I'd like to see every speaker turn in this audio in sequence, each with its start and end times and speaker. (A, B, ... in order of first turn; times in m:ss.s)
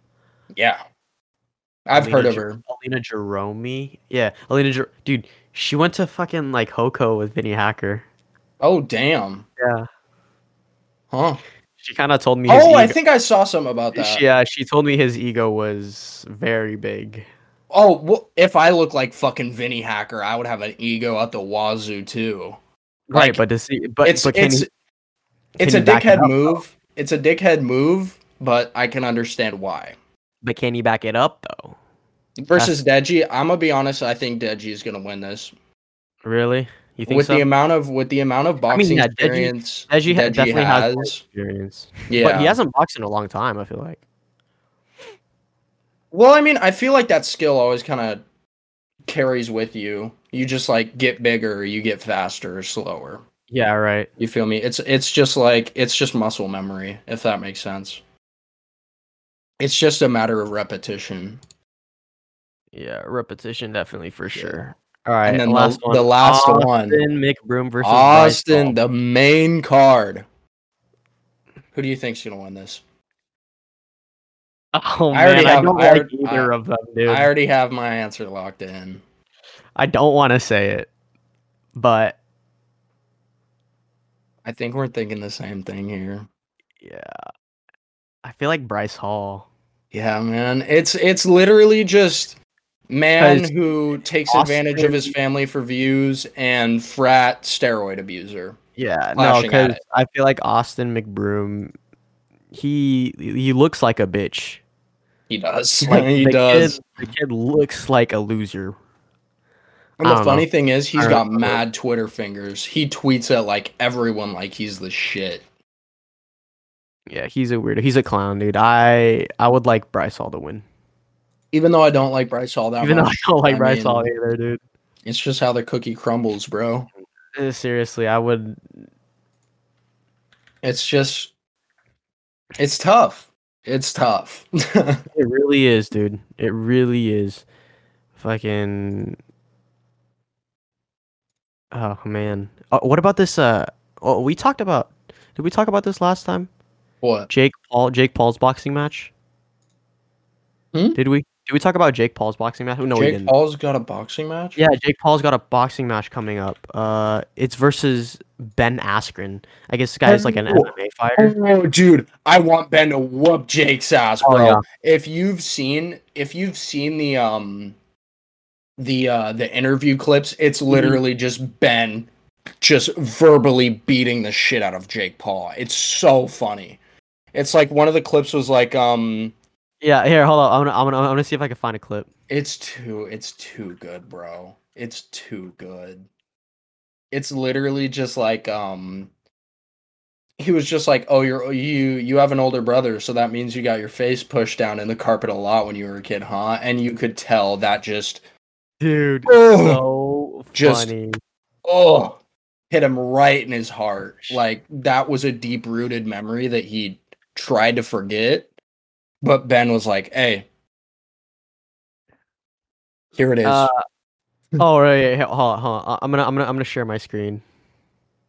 0:00.5-0:00.8 A
0:01.9-0:02.6 A
0:01.9-0:08.0 B
0:08.6-0:09.5 A
0:09.6-0:09.9 B
0:11.1-0:11.4 A
0:11.8-0:13.0 B
0:12.5-0:14.2 A
0:13.9-0:17.3 B
0:17.7-0:22.6 A
0:23.1-0:24.7 B
0:23.1-0:23.4 A
0:24.0-0:24.7 A
0:25.6-0:30.0 A
0:25.6-0:26.6 B
0:30.4-0:31.8 B
0:32.4-0:35.5 A
0:36.2-0:37.5 B
0:37.1-0:41.2 A
0:38.7-0:44.0 B
0:42.1-0:42.6 A
0:46.1-0:48.2 A
0:49.0-0:53.2 A
0:53.5-0:54.1 B
0:54.2-0:58.0 A
0:59.6-1:01.4 A
1:02.7-1:08.8 B
1:04.3-1:04.6 A
1:05.2-1:07.0 A
1:07.8-1:10.2 A
1:11.7-1:12.8 A
1:14.7-1:17.3 B
1:15.1-1:16.5 A
1:17.0-1:19.0 A
1:19.8-1:20.9 B
1:21.7-1:22.2 B
1:24.4-1:26.3 A
1:26.8-1:27.1 B
1:28.2-1:29.5 B
1:29.9-1:32.4 A
1:32.9-1:38.6 A
1:33.2-1:33.5 B
1:34.3-1:35.1 B
1:38.8-1:41.7 B
1:39.2-1:39.8 A
1:42.5-1:44.6 B
1:45.3-1:46.8 A
1:45.9-1:48.7 B
1:50.0-1:55.4 A
1:50.0-1:51.6 B
1:57.1-2:00.6 B
2:01.5-2:04.1 A
2:02.8-2:04.6 B
2:05.0-2:06.9 A
2:07.3-2:08.6 B
2:10.6-2:11.3 A
2:12.6-2:15.0 A
2:15.1-2:17.4 B
2:18.2-2:19.2 B
2:21.7-2:26.5 B
2:27.0-2:27.3 A
2:27.3-2:29.1 B
2:31.0-2:33.3 B
2:32.9-2:34.6 A
2:34.6-2:41.3 B
2:40.1-2:47.8 A
2:44.2-2:44.6 B
2:48.8-2:56.8 A
2:50.7-2:51.0 B
2:57.3-2:59.3 A
2:59.8-3:02.1 B
3:02.3-3:06.1 A
3:07.1-3:09.1 A
3:10.4-3:18.2 A
3:18.8-3:21.2 B
3:19.2-3:19.8 A
3:20.5-3:20.9 A
3:21.6-3:22.2 A
3:22.7-3:28.5 A
3:29.2-3:30.5 A
3:33.2-3:33.7 A
3:33.4-3:33.8 B
3:34.6-3:37.4 B